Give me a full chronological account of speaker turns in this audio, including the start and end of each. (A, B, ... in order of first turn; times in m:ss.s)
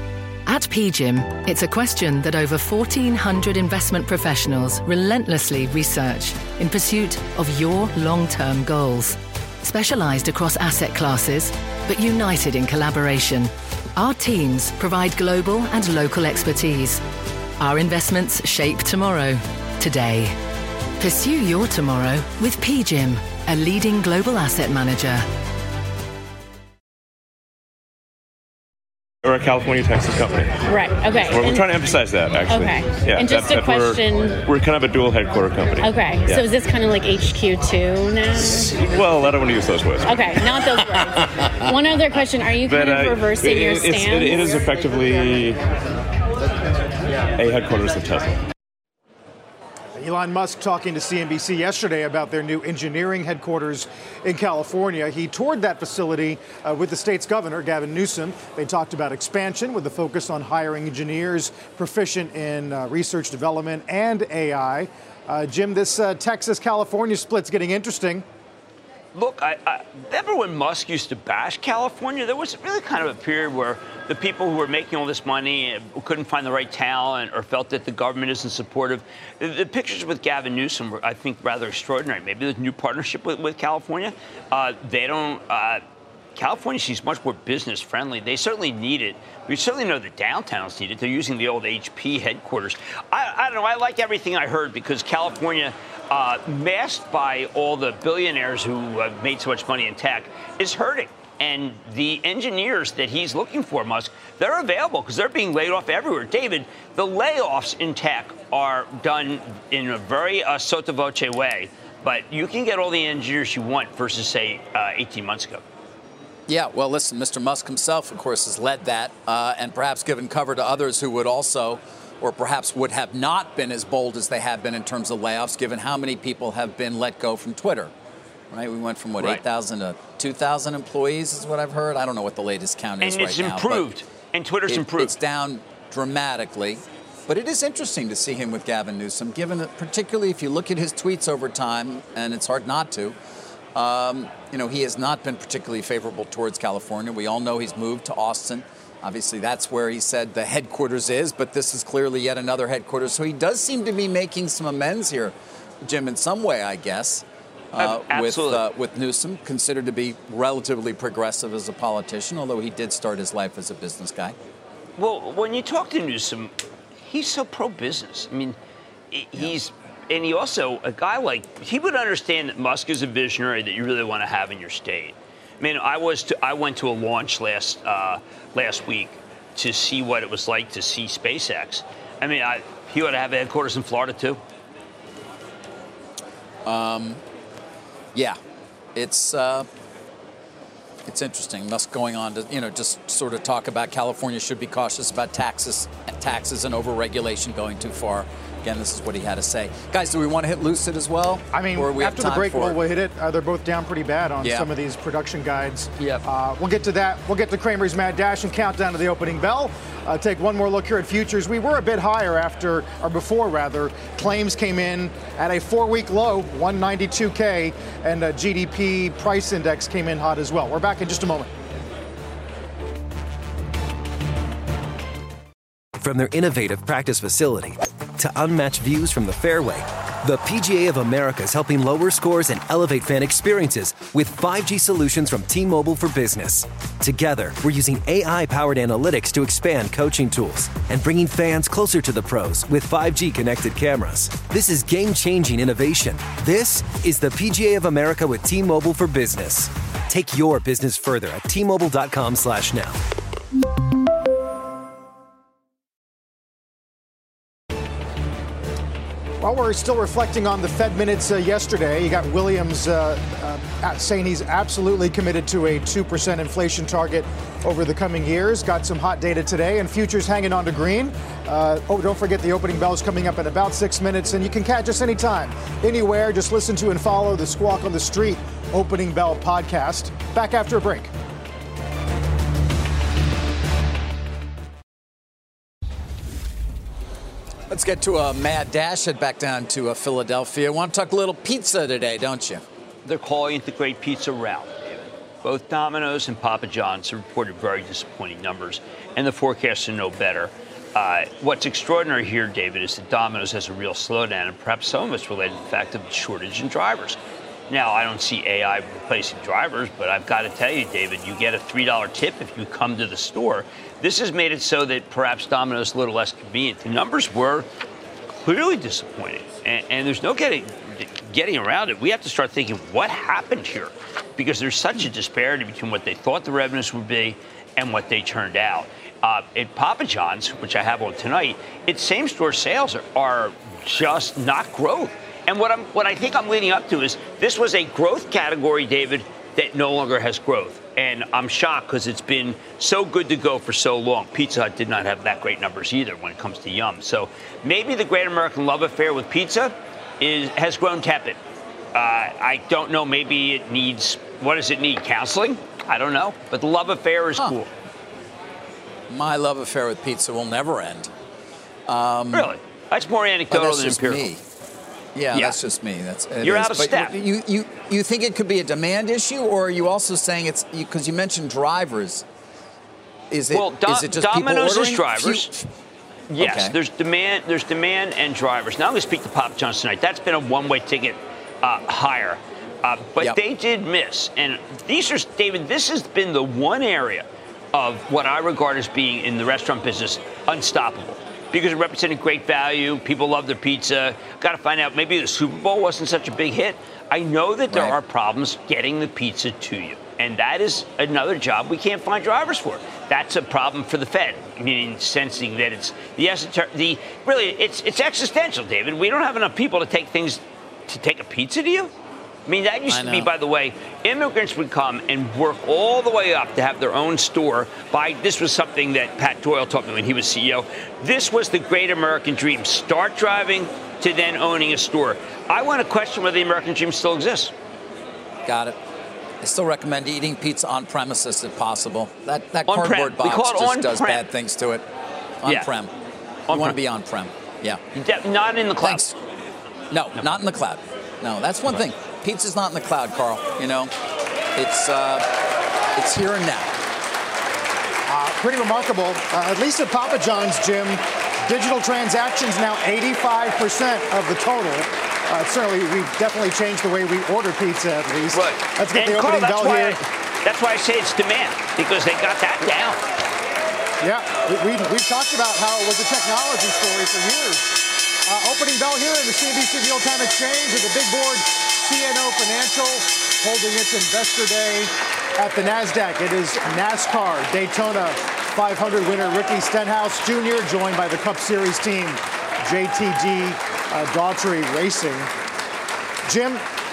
0:00.5-0:17.0 A
0:17.6-0:20.4 A
0:21.0-0:25.3 A
0:29.2-0:30.6 B
0:30.7-0:31.8 C
0:31.3-0:36.5 B
0:32.4-0:34.4 C
0:35.8-0:38.8 C
0:38.4-0:41.1 B
0:40.0-0:41.1 C
0:41.7-0:44.5 C
0:42.6-0:45.6 B
0:47.4-0:48.4 B
0:50.0-1:08.2 D
1:09.1-1:25.8 E
1:26.4-1:55.6 E
1:56.5-2:07.9 F
2:08.5-2:13.9 F
2:13.0-2:15.1 E
2:14.7-2:23.2 F
2:23.8-2:44.4 F
2:37.8-2:38.6 E
2:45.0-2:48.6 E
2:49.1-3:04.4 E
3:06.6-3:07.2 F
3:09.0-3:09.7 F
3:11.1-3:22.8 F
3:21.5-3:41.5 D
3:24.4-3:24.7 F
3:46.0-4:13.0 G
4:19.4-4:41.1 D
4:47.7-4:52.6 F
4:53.0-5:17.7 E
5:18.3-5:51.4 E
5:51.9-5:57.7 E
5:59.1-6:01.1 F
6:01.9-6:02.5 F
6:02.3-6:04.3 E
6:03.5-6:04.4 F
6:05.2-6:12.3 F
6:05.3-6:05.6 E
6:06.4-6:07.2 E
6:13.3-6:15.7 F
6:13.5-6:15.5 E
6:16.3-6:51.9 E
6:16.4-6:16.8 F
6:37.7-6:38.0 F
6:52.5-7:07.5 E
6:52.9-6:53.3 F
7:08.5-7:08.8 F
7:09.4-7:14.9 F
7:12.7-7:14.3 E
7:15.4-7:15.9 F
7:16.5-7:16.8 E
7:16.5-7:17.8 F
7:17.9-7:19.1 E
7:18.8-7:19.2 F
7:19.9-7:23.9 F
7:24.6-7:25.3 F
7:26.0-7:26.8 F
7:28.1-7:40.0 D
7:38.3-7:43.0 E
7:44.0-8:05.3 D
8:06.3-8:06.6 D